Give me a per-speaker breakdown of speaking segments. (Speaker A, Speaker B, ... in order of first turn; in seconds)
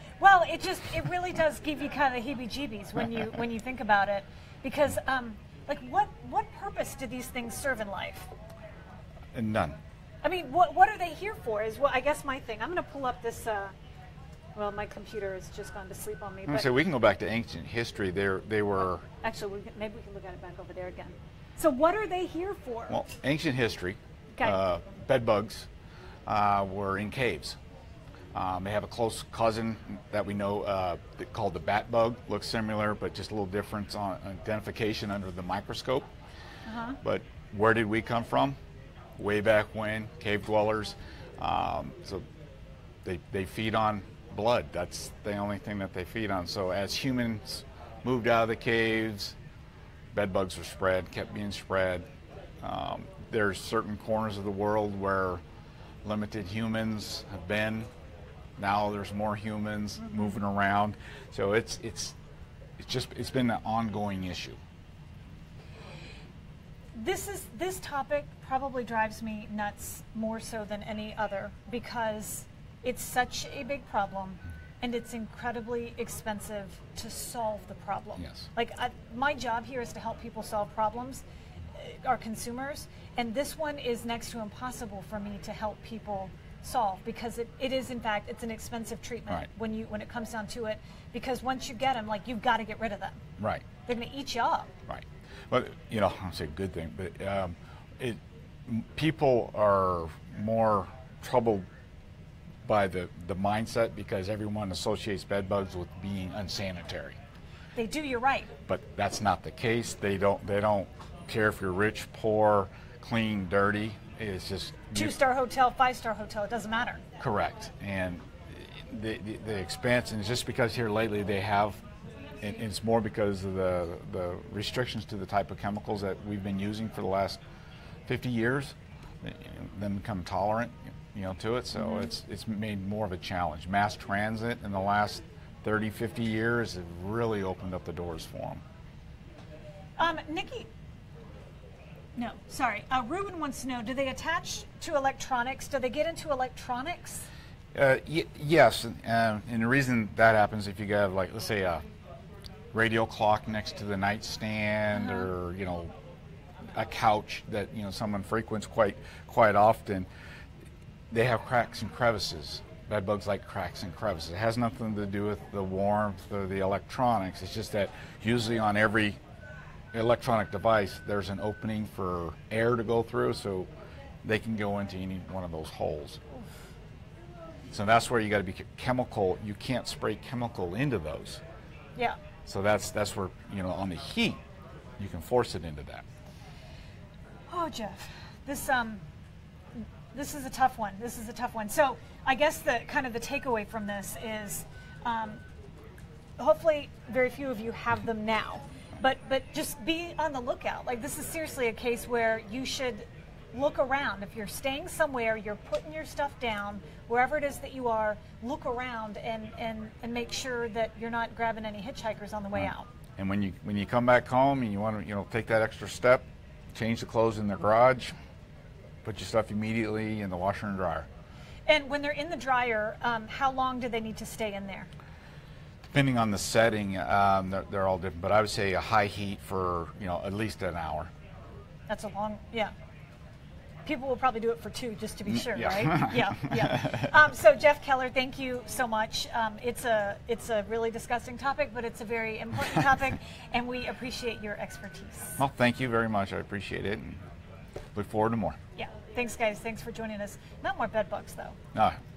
Speaker A: 0.2-8.3, 10.2-13.7, 14.5-16.7, 19.2-23.0, 36.7-37.0, 66.9-81.2, 81.8-93.2, 93.8-94.7, 107.8-108.5, 114.9-117.0, 140.0-140.7, 142.2-147.2, 155.0-155.3, 187.5-189.0, 190.1-195.4, 196.4-212.9, 221.7-224.9, 231.9-232.7, 233.8-245.4, 248.8-251.6
Speaker B: 9.3-9.8, 16.5-19.1, 22.9-25.7, 26.3-27.6, 28.3-36.1, 37.0-38.6, 39.2-42.2, 43.0-49.4, 50.1-52.0, 52.6-55.4, 56.0-57.9, 58.6-62.1, 62.8-64.6, 78.2-78.5, 93.4-93.6, 94.9-101.7, 102.6-107.2, 108.7-115.1, 117.2-121.8, 122.4-127.4, 128.1-138.6, 147.7-151.8, 152.7-155.9, 156.7-160.1, 161.1-169.2, 169.9-173.7, 174.2-176.2, 177.7-181.4, 182.4-184.4, 185.0-186.0, 212.5-218.1, 219.0-221.1, 225.9-231.1, 235.3-237.1, 245.4-247.2, 247.9-248.6